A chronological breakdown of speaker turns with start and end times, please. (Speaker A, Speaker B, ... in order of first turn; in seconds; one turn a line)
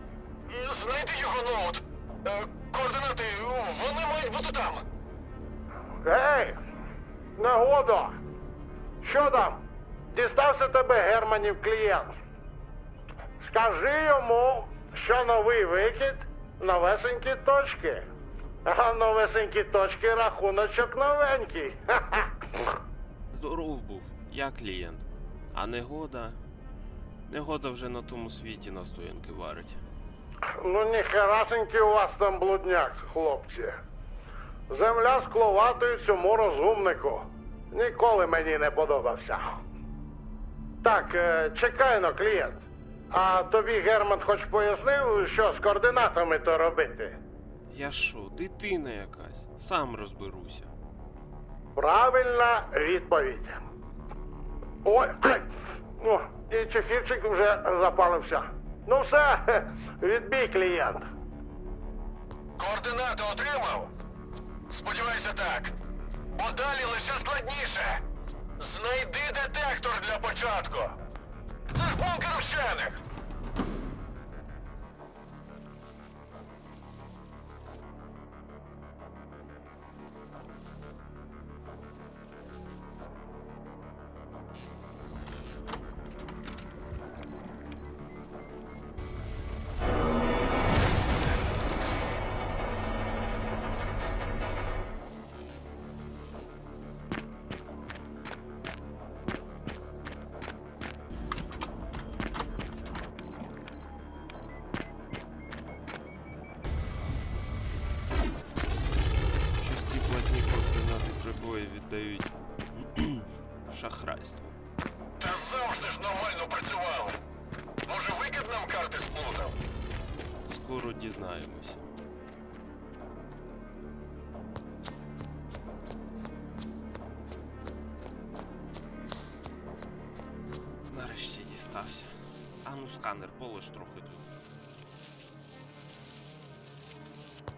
Speaker A: 0.5-4.8
Speaker B: 6.0-6.6
Speaker B: 7.4-8.2
Speaker B: 9.0-9.6
Speaker B: 10.1-12.1
Speaker B: 13.4-18.1
Speaker B: 18.6-22.7
Speaker C: 23.3-26.4
Speaker C: 27.3-29.8
Speaker B: 30.6-33.8
Speaker B: 34.7-39.5
Speaker B: 40.8-47.2
Speaker C: 47.7-50.7
Speaker B: 51.8-53.6
Speaker B: 54.8-61.1
Speaker A: 62.6-63.9
Speaker A: 64.7-65.8
Speaker A: 66.4-68.0
Speaker A: 68.6-71.0
Speaker A: 71.7-73.0
Speaker C: 109.6-114.6
Speaker A: 115.2-117.2
Speaker A: 117.9-119.6
Speaker C: 120.5-121.8
Speaker C: 130.9-134.3